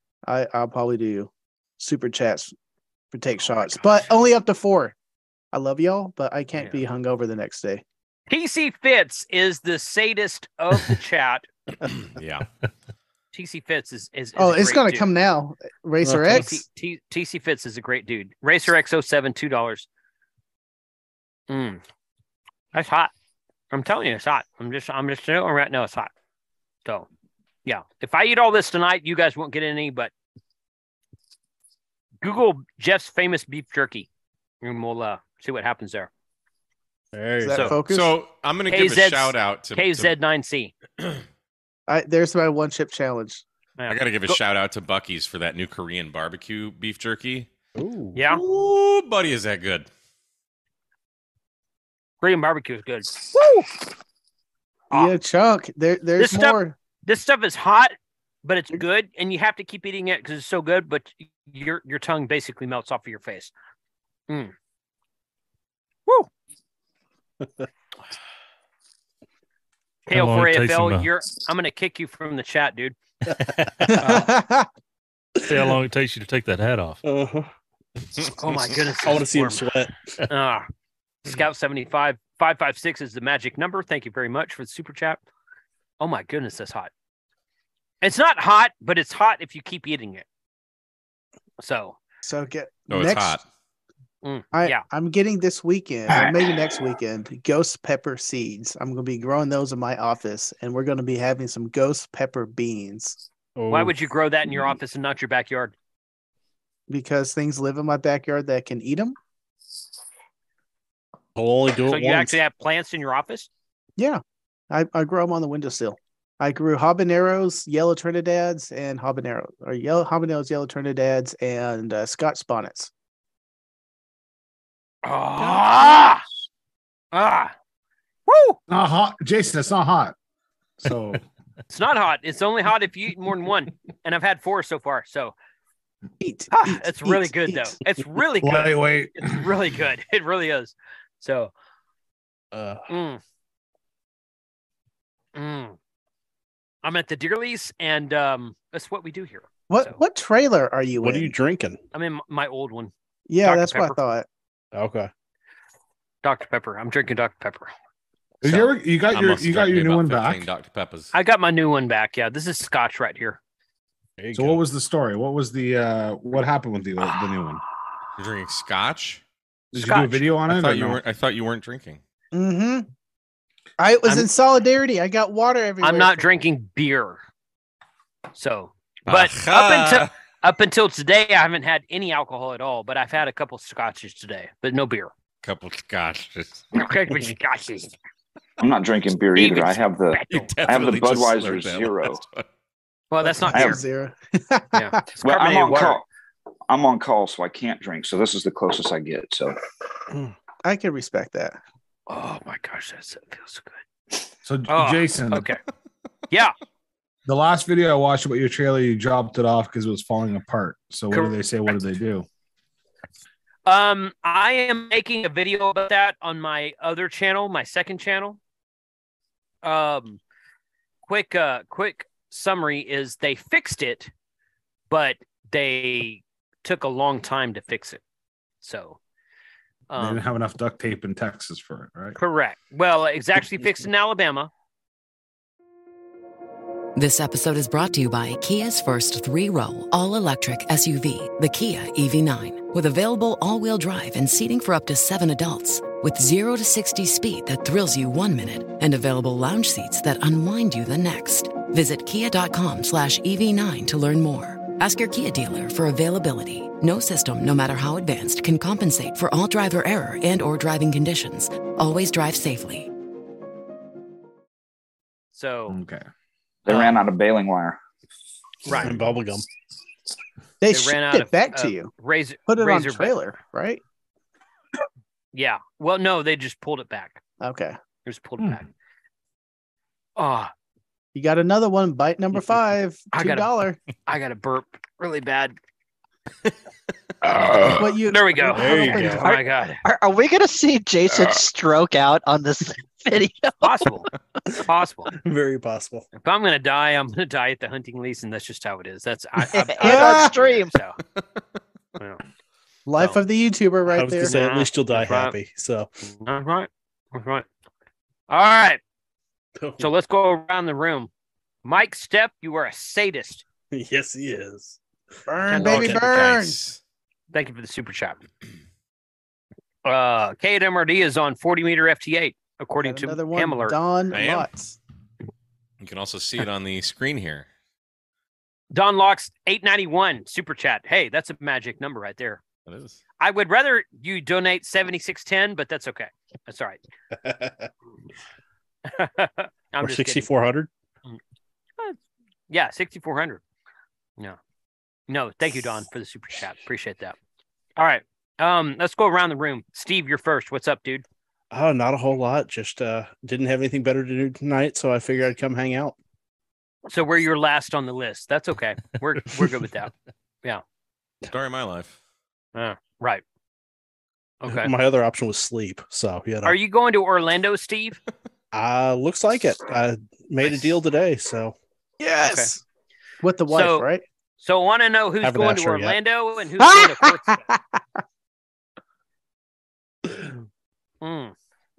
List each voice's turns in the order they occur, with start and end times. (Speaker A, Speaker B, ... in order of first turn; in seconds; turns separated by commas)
Speaker A: 0.3-2.5, Speaker A: 3.1-5.0, Speaker A: 5.5-7.8, Speaker B: 6.6-6.8, Speaker B: 8.3-11.5, Speaker C: 12.1-12.5, Speaker B: 13.3-15.1, Speaker A: 14.4-16.6, Speaker D: 16.0-16.4, Speaker B: 16.3-19.9, Speaker B: 21.5-21.8, Speaker B: 22.7-23.1, Speaker B: 23.7-26.1, Speaker B: 27.6-30.1, Speaker B: 32.2-34.1, Speaker B: 34.6-36.1, Speaker D: 37.1-37.8, Speaker A: 37.4-38.1, Speaker C: 37.9-40.1, Speaker B: 38.7-40.7, Speaker A: 41.9-43.4, Speaker B: 43.8-44.4, Speaker C: 43.9-47.5, Speaker D: 47.8-48.2, Speaker B: 48.1-48.4, Speaker C: 48.3-49.9, Speaker B: 52.2-53.7, Speaker A: 54.9-56.8, Speaker B: 56.2-63.5, Speaker B: 64.3-64.5, Speaker D: 67.4-67.7, Speaker B: 70.1-73.0, Speaker E: 70.1-71.1, Speaker D: 73.3-74.0, Speaker A: 73.9-74.7, Speaker B: 74.0-74.3, Speaker D: 75.4-75.7, Speaker E: 75.5-77.0, Speaker D: 77.0-77.5, Speaker B: 78.4-79.7, Speaker D: 79.0-79.9, Speaker B: 80.3-80.7, Speaker B: 81.2-85.2, Speaker B: 86.0-86.9, Speaker B: 88.0-90.2, Speaker B: 91.6-92.0, Speaker A: 92.2-93.4, Speaker C: 92.9-93.4, Speaker B: 94.2-94.8, Speaker A: 94.5-103.2, Speaker D: 103.6-104.0, Speaker B: 103.7-105.7, Speaker A: 106.9-109.2, Speaker D: 111.4-112.4, Speaker B: 111.9-113.5, Speaker A: 114.0-122.9, Speaker B: 125.0-126.2, Speaker B: 127.1-127.5, Speaker B: 128.3-128.6, Speaker F: 128.7-130.2, Speaker F: 130.8-131.2, Speaker B: 131.7-135.3, Speaker A: 136.2-137.8, Speaker B: 136.5-141.5, Speaker F: 138.4-139.5, Speaker D: 142.5-142.8, Speaker B: 142.9-143.2, Speaker B: 145.3-145.8, Speaker B: 146.8-150.0, Speaker A: 149.7-151.3, Speaker D: 151.0-151.8, Speaker B: 151.9-152.9, Speaker A: 153.3-154.3, Speaker B: 153.4-154.0, Speaker D: 154.7-155.1, Speaker B: 156.2-157.7, Speaker F: 158.4-160.5, Speaker B: 158.4-158.7, Speaker C: 159.1-161.1, Speaker B: 161.1-163.4, Speaker D: 164.2-164.6, Speaker F: 164.3-167.6, Speaker C: 168.2-169.2, Speaker F: 169.7-171.0, Speaker B: 169.8-170.2, Speaker C: 170.5-172.0, Speaker A: 172.3-172.9, Speaker A: 173.8-176.2, Speaker B: 175.8-177.2, Speaker B: 178.3-185.1, Speaker C: 179.1-180.1, Speaker C: 185.4-186.7, Speaker B: 186.7-187.9, Speaker G: 188.6-192.2, Speaker B: 189.4-190.5, Speaker C: 190.3-192.4, Speaker B: 193.1-193.8, Speaker A: 193.4-195.1, Speaker G: 193.5-193.8, Speaker B: 194.7-196.0, Speaker G: 195.2-196.1, Speaker G: 196.7-199.6, Speaker A: 200.6-201.6, Speaker B: 202.1-203.8, Speaker F: 204.4-205.5, Speaker B: 204.7-205.6, Speaker F: 207.3-212.3, Speaker B: 211.1-211.7, Speaker B: 213.7-218.4, Speaker B: 219.6-220.2, Speaker B: 221.1-224.1, Speaker B: 224.9-228.0, Speaker B: 228.6-229.0, Speaker B: 229.9-230.2, Speaker F: 230.0-232.2, Speaker B: 232.2-234.5, Speaker H: 236.9-262.9, Speaker B: 265.3-265.8, Speaker F: 265.7-266.0, Speaker G: 266.7-267.8, Speaker B: 268.7-268.9, Speaker D: 268.7-269.4, Speaker A: 270.6-271.9, Speaker B: 270.7-273.1, Speaker A: 272.5-273.8, Speaker B: 275.3-277.2, Speaker A: 277.4-277.8, Speaker B: 278.1-278.7, Speaker B: 280.2-280.5, Speaker A: 281.1-283.8, Speaker B: 283.1-283.5, Speaker B: 284.1-285.6, Speaker B: 287.2-289.8, Speaker A: 287.7-289.3, Speaker D: 288.5-289.3, Speaker I: 289.2-293.9, Speaker B: 293.6-294.1, Speaker B: 294.6-295.1, Speaker D: 295.1-296.1, Speaker B: 296.2-301.0, Speaker I: 299.6-300.7, Speaker A: 299.8-300.3, Speaker A: 302.9-304.4, Speaker D: 303.9-305.9, Speaker B: 304.2-305.4, Speaker B: 306.0-307.5, Speaker B: 308.3-308.8, Speaker D: 309.6-309.9, Speaker B: 309.8-311.1, Speaker B: 311.6-313.4, Speaker D: 313.7-314.8, Speaker A: 315.3-316.6, Speaker B: 315.5-316.0, Speaker D: 315.5-316.2, Speaker C: 315.5-316.8, Speaker B: 317.3-318.2, Speaker B: 319.9-323.8, Speaker A: 322.8-324.8, Speaker C: 324.1-324.5, Speaker C: 325.8-327.5, Speaker B: 328.7-332.4, Speaker C: 332.7-333.0, Speaker B: 333.2-336.8, Speaker D: 337.2-337.7, Speaker B: 338.9-340.3, Speaker D: 339.8-340.7, Speaker B: 342.5-343.4, Speaker B: 345.1-347.2, Speaker B: 347.8-351.1, Speaker D: 351.5-356.0, Speaker B: 356.9-359.9, Speaker C: 361.3-362.0, Speaker B: 362.6-363.2, Speaker B: 364.4-364.7, Speaker D: 364.5-366.6, Speaker B: 366.4-368.0, Speaker D: 368.5-371.6, Speaker A: 372.0-372.6, Speaker B: 372.2-372.5, Speaker A: 373.2-374.0, Speaker B: 373.5-373.9, Speaker B: 374.4-377.4, Speaker D: 375.2-376.0, Speaker A: 376.6-377.8, Speaker B: 381.0-381.3